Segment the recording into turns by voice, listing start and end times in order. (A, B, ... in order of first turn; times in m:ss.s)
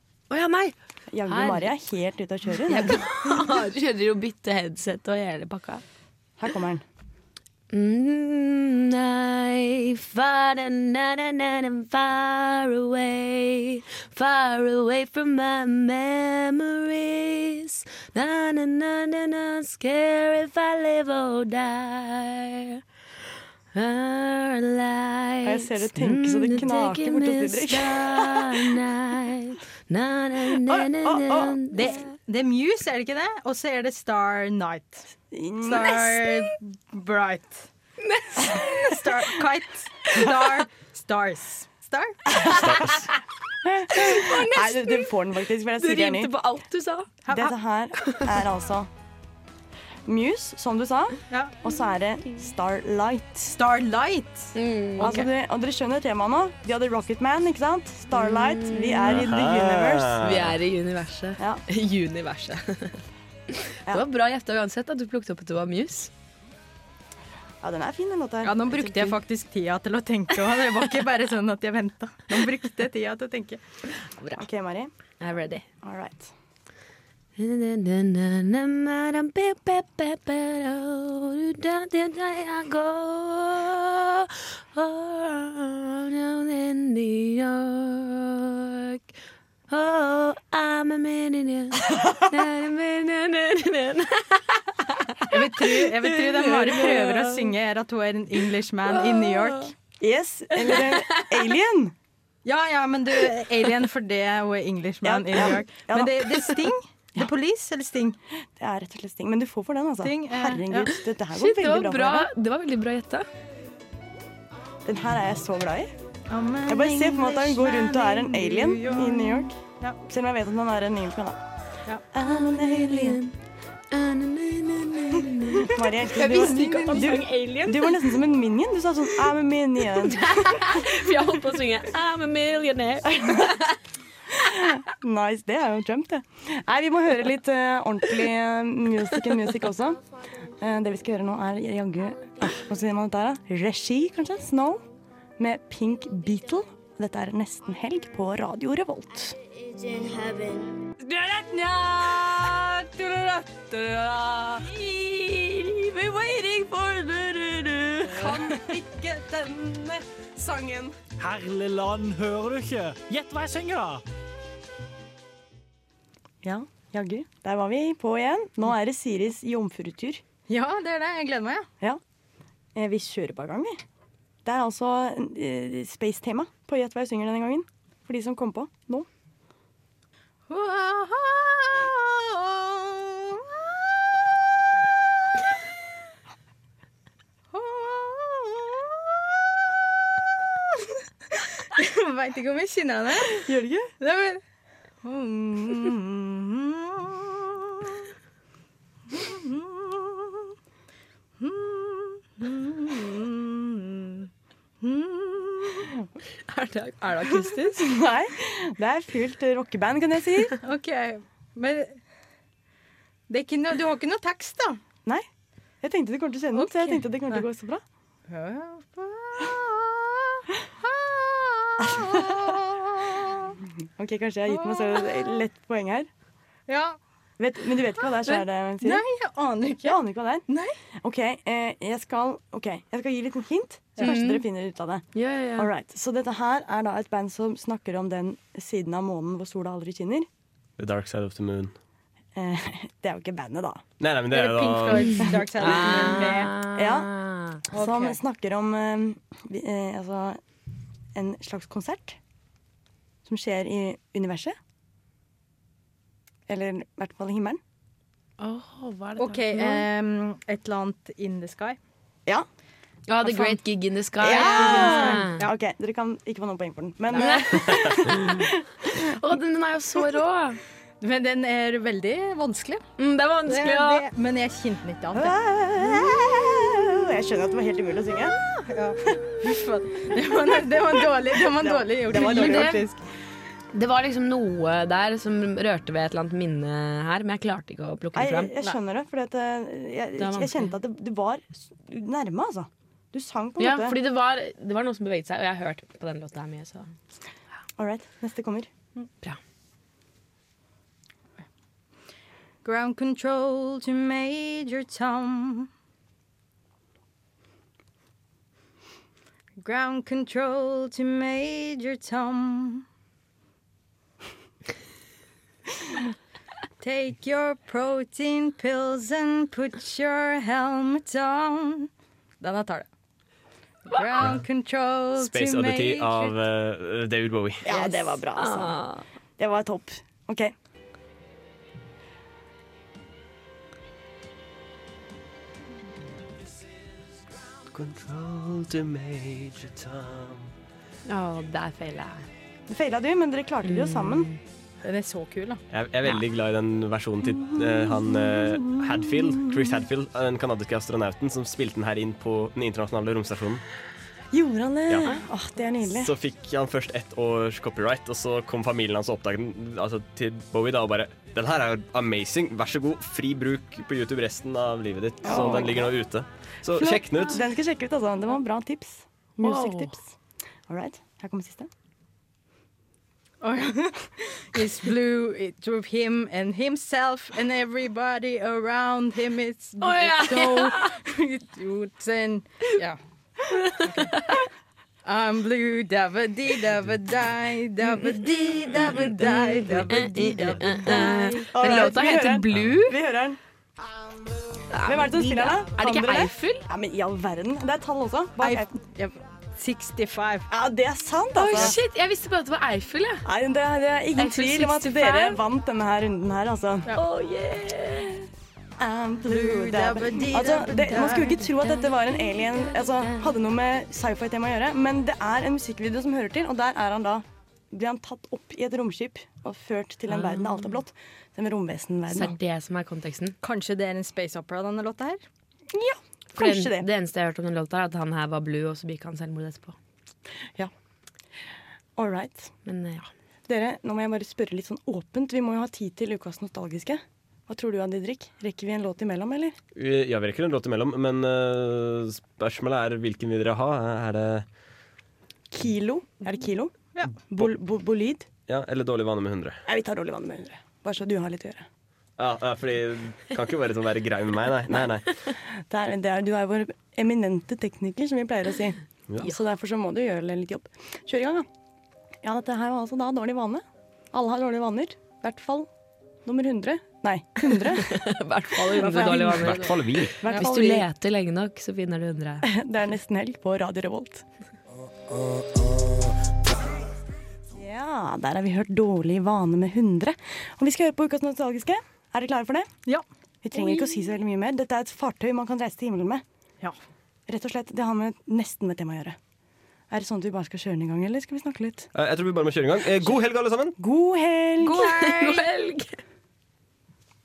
0:00.3-0:01.7 A
0:01.1-0:03.0 B
0:02.6-0:05.8 A
0:06.4-0:06.8 B
0:07.7-0:22.8 A
0:23.7-0:32.1 A
0:25.4-0:28.6 B
0:30.6-0:31.6 B
0:31.7-0:35.1 C
0:35.3-0:36.4 B
0:35.6-0:37.7 C
0:38.0-0:39.0 A
0:38.4-0:42.4 C
0:42.3-0:43.0 A
0:43.6-0:46.3 B
0:43.9-0:45.1 A
0:45.7-0:47.1 A
0:47.2-0:47.6 C
0:47.3-0:48.9 B
0:50.0-0:53.6 B
0:51.3-0:51.6 C
0:53.5-0:55.3 C
0:54.5-0:55.2 A
0:55.0-1:00.2 B
0:58.1-0:59.2 A
0:59.0-1:00.5 D
1:00.2-1:03.0 A
1:01.4-1:01.6 B
1:03.8-1:06.1 A
1:07.6-1:09.2 B
1:08.4-1:13.6 C
1:14.2-1:14.4 A
1:14.4-1:14.9 B
1:15.2-1:15.6 A
1:15.8-1:16.3 B
1:17.4-1:29.1 A
1:29.7-1:37.4 A
1:35.3-1:39.7 C
1:38.9-1:39.6 A
1:40.0-1:41.9 B
1:40.6-1:41.5 A
1:42.4-1:48.2 C
1:45.0-1:46.6 B
1:48.6-1:52.3 B
1:50.0-1:50.9 C
1:51.2-1:53.2 A
1:54.8-1:55.9 B
1:56.3-2:00.0 C
1:56.7-2:01.4 B
2:02.1-2:03.2 B
2:02.2-2:03.3 A
2:03.9-2:08.0 A
2:05.6-2:10.8 B
2:06.1-2:07.3 C
2:10.0-2:13.7 A
2:13.0-2:13.5 B
2:14.4-2:24.8 B
2:25.4-2:29.4 B
2:31.1-2:32.3 A
2:33.2-2:38.3 A
2:38.1-2:38.4 B
2:38.9-2:40.8 A
2:41.2-2:44.0 E
2:46.4-2:50.2 B
2:50.5-2:51.7 C
2:52.7-2:53.8 B
2:54.4-2:59.1 B
3:00.5-3:03.4 C
3:07.5-3:09.0 C
3:11.3-3:13.4 C
3:13.3-3:13.9 B
3:14.0-3:14.4 C
3:15.0-3:17.9 C
3:19.1-3:20.4 C
3:21.4-3:24.3 C
3:24.8-3:25.9 C
3:26.5-3:27.6 A
3:27.0-3:27.9 C
3:27.7-3:30.5 B
3:30.6-3:32.0 C
3:33.3-3:34.8 C
3:35.8-3:37.8 B
3:36.5-3:37.4 C
3:38.3-3:43.5 C
3:41.9-3:42.4 B
3:44.0-3:46.1 B
3:44.5-3:45.1 C
3:46.7-3:47.0 C
3:47.4-3:49.0 B
3:48.3-3:50.8 C
3:49.8-4:00.3 B
3:54.0-3:54.4 A
3:55.1-3:55.7 A
4:00.8-4:01.8 D
4:02.3-4:03.8 B
4:04.0-4:05.9 D
4:04.3-4:06.5 C
4:05.6-4:07.6 A
4:06.7-4:07.1 B
4:07.7-4:10.4 B
4:07.7-4:08.2 C
4:11.1-4:12.2 B
4:13.2-4:14.6 B
4:16.5-4:17.6 B
4:18.4-4:19.9 A
4:19.2-4:21.8 C
4:23.1-4:25.4 A
4:23.3-4:23.6 C
4:24.2-4:28.7 B
4:24.2-4:25.5 C
4:27.1-4:28.3 A
4:28.9-4:30.6 A
4:31.0-4:32.8 C
4:33.0-4:34.0 A
4:33.4-4:35.3 C
4:35.1-4:38.4 B
4:38.6-4:43.0 C
4:41.4-4:42.8 B
4:42.2-4:42.8 A
4:43.7-4:48.5 A
4:48.1-4:54.0 B
4:50.2-4:50.7 A
4:53.6-4:56.9 A
4:57.8-4:58.7 B
5:02.6-5:05.7 C
5:09.6-5:12.8 C
5:16.8-5:21.9 C
5:22.4-5:22.9 C
5:23.9-5:26.4 C
5:23.9-5:24.3 A
5:25.2-5:27.6 D
5:27.6-5:28.8 B
5:27.7-5:29.0 A
5:29.4-5:30.5 B
5:37.7-5:40.4 D
5:41.0-5:42.3 A
5:42.7-5:44.3 B
5:43.6-5:44.4 A
5:44.8-5:45.6 C
5:45.7-5:53.6 D
5:47.5-5:48.9 B
5:54.3-5:56.1 B
5:54.9-5:55.2 D
5:55.8-6:07.4 D
6:05.2-6:05.9 B
6:06.7-6:10.1 B
6:09.4-6:09.9 C
6:10.7-6:11.7 B
6:13.4-6:23.0 C
6:19.8-6:21.0 A
6:23.7-6:24.2 C
6:24.0-6:24.5 A
6:25.0-6:32.0 C
6:27.8-6:33.0 A
6:30.8-6:33.4 B
6:34.7-6:36.6 A
6:34.8-6:38.7 B
6:38.4-6:40.5 C
6:40.5-6:41.8 B
6:41.3-6:43.2 A
6:43.2-6:46.9 B
6:44.2-6:45.4 A
6:46.9-6:48.2 A
6:48.8-7:02.3 B
6:49.3-6:51.4 C
6:50.9-6:53.3 A
7:00.1-7:00.8 A
7:02.1-7:03.4 A
7:03.4-7:05.2 C
7:05.7-7:06.9 B
7:06.4-7:09.8 A
7:12.0-7:12.5 B
7:12.6-7:13.1 A
7:13.5-7:19.6 B
7:19.7-7:24.4 D
7:25.5-7:26.7 B
7:27.3-7:28.3 B
7:28.5-7:29.6 D
7:29.6-7:31.6 B
7:32.2-7:35.0 D
7:35.3-7:41.5 B
7:42.2-7:45.7 B
7:46.2-7:48.0 B
7:47.4-7:52.5 A
7:48.6-7:50.8 B
7:49.2-7:50.2 D
7:52.4-7:54.2 B
7:57.5-8:02.7 B
8:03.4-8:06.2 B
8:03.6-8:03.8 C
8:07.3-8:09.2 B
8:09.9-8:11.9 B
8:11.9-8:13.7 D
8:13.8-8:14.8 B
8:14.6-8:15.4 C
8:14.7-8:16.0 A